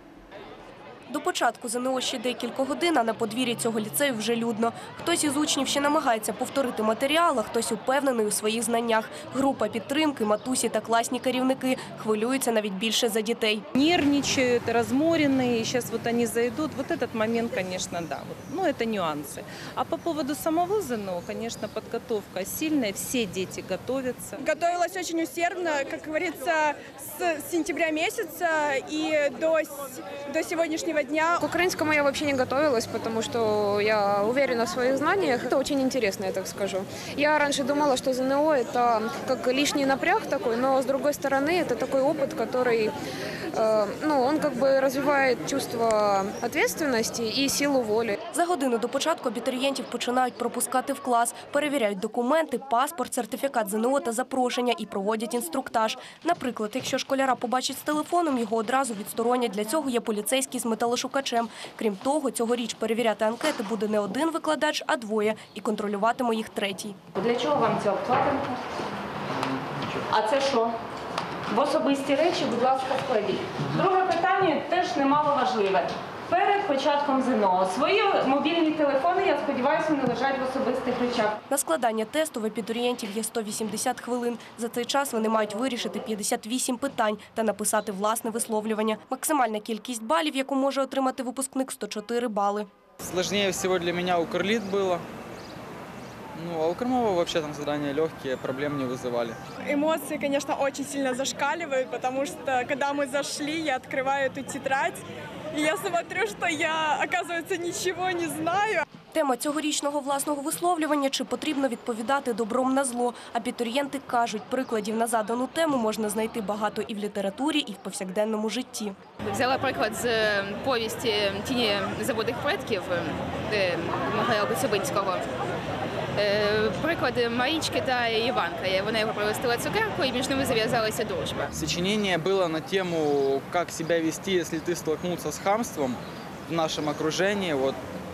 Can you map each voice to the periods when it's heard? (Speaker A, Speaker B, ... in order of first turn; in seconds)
Speaker A: 1.1-13.7, 48.3-67.0, 81.5-92.7, 109.1-119.0
Speaker B: 13.8-24.4
Speaker C: 24.4-31.4, 99.7-105.0, 105.5-108.8
Speaker D: 31.4-42.9, 43.5-48.2
Speaker E: 67.2-68.6, 70.1-70.7, 71.5-81.4
Speaker F: 93.0-95.0, 96.3-99.4, 131.5-137.8
Speaker G: 119.2-125.3, 126.2-131.5